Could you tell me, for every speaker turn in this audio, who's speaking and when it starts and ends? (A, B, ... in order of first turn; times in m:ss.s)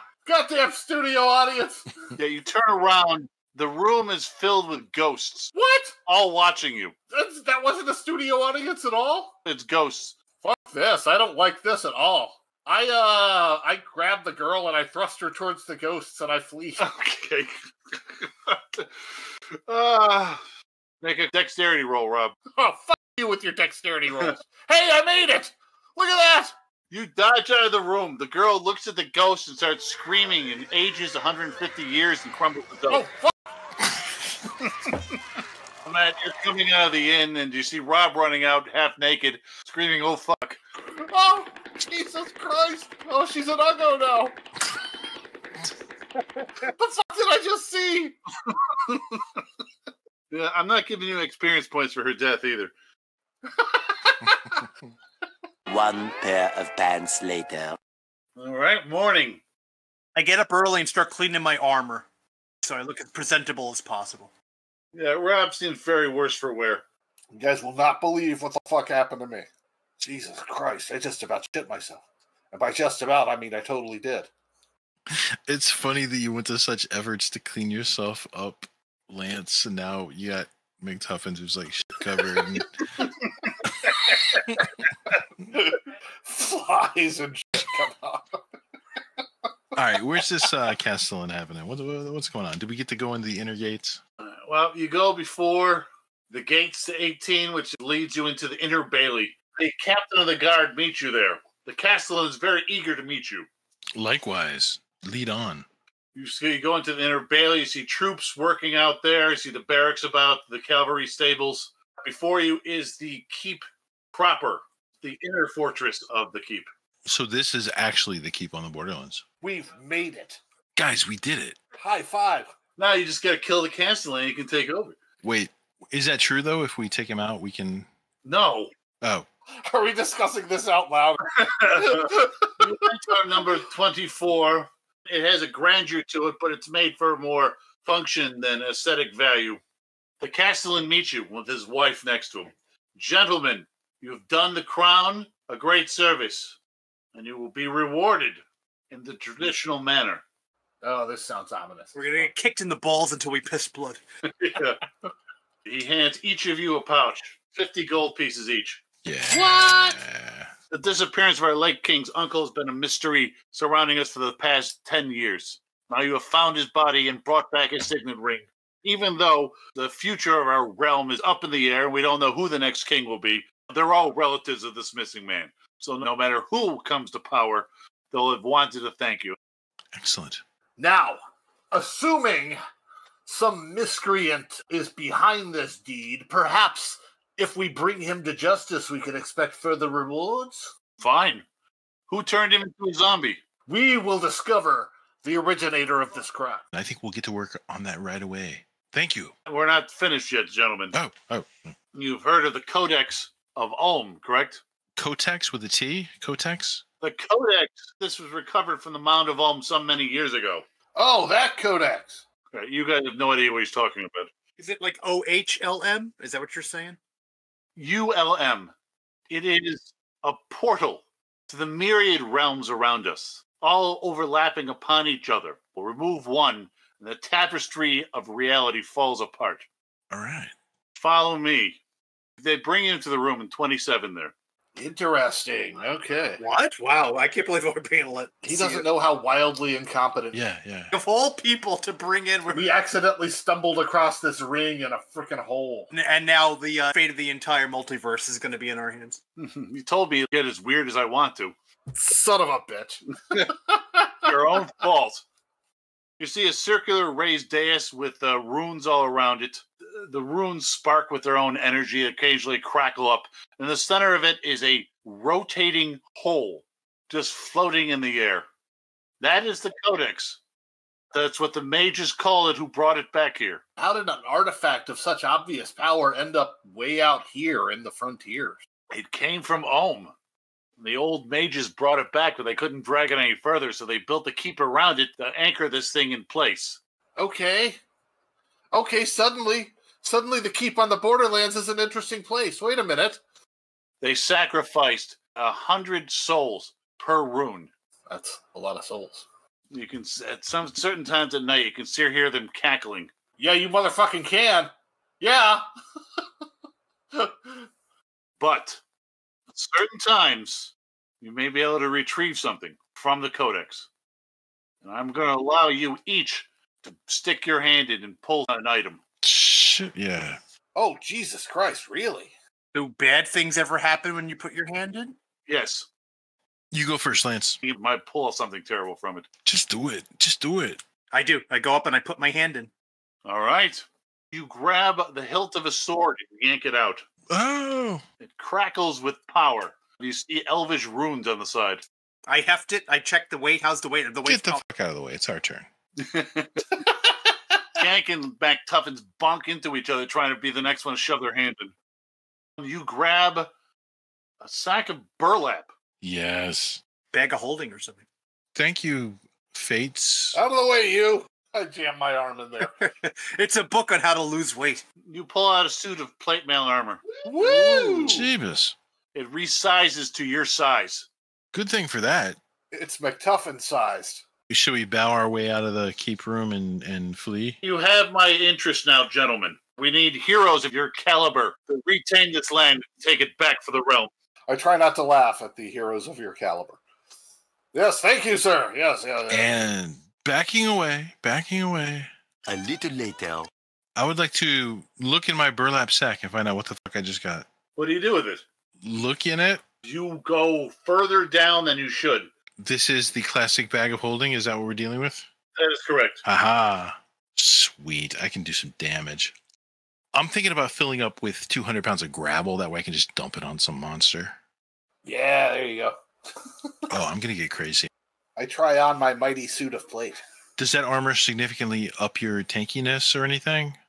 0:00.2-0:01.9 A
0:02.2-0:05.5 B
0:05.6-0:06.0 A
0:06.1-0:06.9 B
0:07.1-0:09.4 A
0:09.4-0:10.2 B
0:10.4-0:16.8 A
0:16.8-0:19.0 B
0:19.7-0:20.4 B
0:21.0-0:22.4 B
0:22.6-0:26.5 A
0:26.9-0:33.1 B
0:32.9-0:33.3 A
0:34.8-0:35.2 B
0:35.8-0:40.6 B
0:40.9-0:44.4 A
0:46.7-0:48.2 A
0:48.5-0:49.4 B
0:50.3-0:52.7 B
0:53.7-0:54.6 A
0:55.7-0:57.8 C
0:58.4-0:59.4 B
1:00.2-1:02.1 D
1:02.6-1:04.3 D
1:04.9-1:06.8 B
1:07.3-1:09.5 A
1:10.0-1:14.3 A
1:15.1-1:22.7 E
1:23.0-1:24.4 B
1:25.5-1:28.4 A
1:29.8-1:34.0 E
1:34.2-1:43.5 B
1:44.0-1:45.7 E
1:46.2-1:56.7 B
1:57.1-1:59.2 E
1:59.4-2:00.4 A
2:00.8-2:01.6 E
2:01.8-2:02.5 A
2:02.8-2:05.0 B
2:05.2-2:07.9 E
2:08.2-2:08.7 B
2:09.0-2:09.3 E
2:09.7-2:12.4 A
2:11.5-2:19.6 B
2:20.2-2:26.6 B
2:27.1-2:30.2 B
2:30.8-2:32.3 A
2:31.9-2:34.0 D
2:34.3-2:34.8 B
2:35.6-2:38.8 B
2:39.0-2:40.5 E
2:39.3-2:40.0 A
2:40.7-2:59.4 B
3:00.0-3:00.4 E
3:00.8-3:01.2 A
3:01.7-3:02.6 A
3:03.3-3:10.7 A
3:11.0-3:11.4 B
3:12.1-3:13.4 B
3:13.7-3:16.6 A
3:16.7-3:19.3 E
3:19.5-3:21.0 B
3:20.9-3:21.8 E
3:21.9-3:24.6 B
3:25.0-3:26.8 E
3:27.0-3:30.6 B
3:31.0-3:32.2 A
3:32.5-3:34.3 B
3:34.6-3:37.0 D
3:37.8-3:38.7 B
3:39.3-3:49.7 B
3:50.1-3:50.5 E
3:50.9-3:51.8 B
3:52.4-3:54.3 B
3:54.8-3:56.4 A
3:56.4-3:58.8 D
3:58.4-4:00.4 A
4:00.3-4:00.9 E
4:00.9-4:02.6 D
4:02.5-4:05.9 A
4:05.9-4:09.2 D
4:09.4-4:11.6 B
4:11.9-4:14.1 A
4:14.3-4:15.2 B
4:16.2-4:28.5 B
4:29.2-4:30.4 B
4:31.1-4:33.6 B
4:33.8-4:38.6 A
4:38.9-4:40.1 B
4:40.8-4:46.8 B
4:47.2-4:47.8 A
4:48.7-4:53.2 A
4:54.0-4:57.7 B
4:58.1-4:59.2 A
4:59.7-5:03.1 B
5:03.4-5:05.6 A
5:07.2-5:07.6 A
5:08.4-5:08.8 B
5:09.5-5:13.9 B
5:14.8-5:19.0 B
5:19.2-5:20.4 E
5:20.8-5:22.3 A
5:22.7-5:25.2 D
5:25.5-5:25.9 B
5:26.7-5:27.6 E
5:27.6-5:29.3 B
5:29.4-5:30.8 E
5:31.1-5:32.7 D
5:33.2-5:37.0 B
5:37.3-5:38.0 E
5:38.2-5:41.8 B
5:42.3-5:44.6 D
5:44.2-5:45.7 E
5:46.1-5:46.7 B
5:47.8-5:51.7 B
5:52.6-5:53.5 B
5:54.4-5:55.7 B
5:56.0-5:56.8 E
5:57.1-5:58.0 D
5:58.6-6:00.4 E
6:00.3-6:02.7 A
6:02.6-6:04.8 D
6:05.1-6:07.0 B
6:07.2-6:08.3 A
6:07.8-6:08.1 B
6:08.0-6:08.8 E
6:09.1-6:11.1 B
6:11.5-6:12.4 E
6:12.7-6:14.3 A
6:14.5-6:17.6 E
6:17.6-6:24.1 B
6:24.5-6:26.8 A
6:27.7-6:29.6 A
6:29.3-6:32.1 E
6:32.5-6:33.5 C
6:34.0-6:37.5 E
6:37.8-6:38.4 B
6:38.8-6:39.6 E
6:39.8-6:42.3 B
6:42.6-6:45.3 E
6:45.6-6:46.2 B
6:46.2-6:49.4 E
6:50.1-6:54.4 E
6:55.0-6:55.9 A
6:56.9-6:57.9 E
6:58.4-7:00.2 A
7:00.6-7:03.8 E